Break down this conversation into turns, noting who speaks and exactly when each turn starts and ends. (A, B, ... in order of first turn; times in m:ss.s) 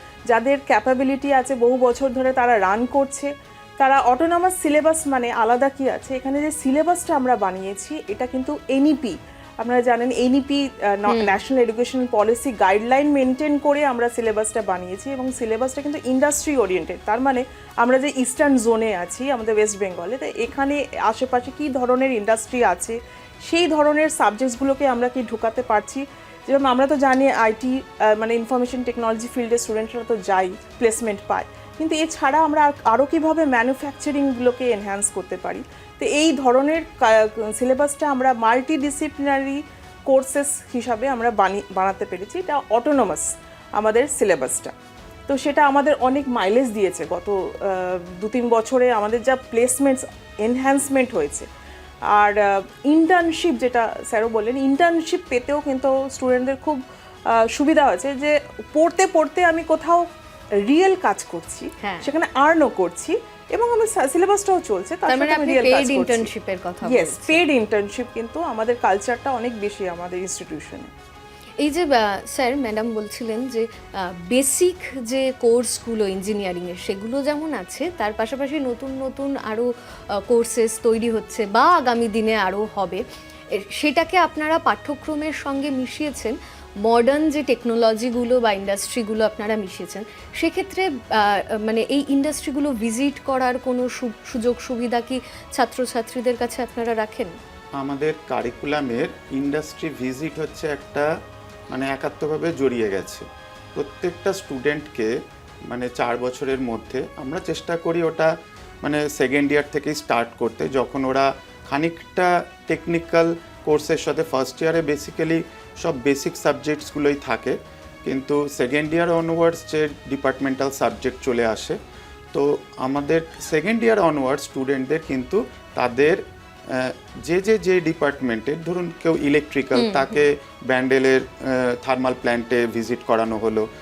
0:00.3-0:44.7 A
0:11.1-0:11.4 B
0:45.3-0:51.5 A
0:52.1-1:06.3 A
1:01.8-1:02.1 B
1:05.1-1:07.4 B
1:06.8-1:10.9 A
1:11.6-1:23.0 B
1:23.5-1:37.4 B
1:37.7-1:41.1 C
1:41.7-1:45.1 C
1:45.7-1:48.3 C
1:48.8-2:01.8 C
2:02.3-2:13.7 C
2:09.7-2:10.2 B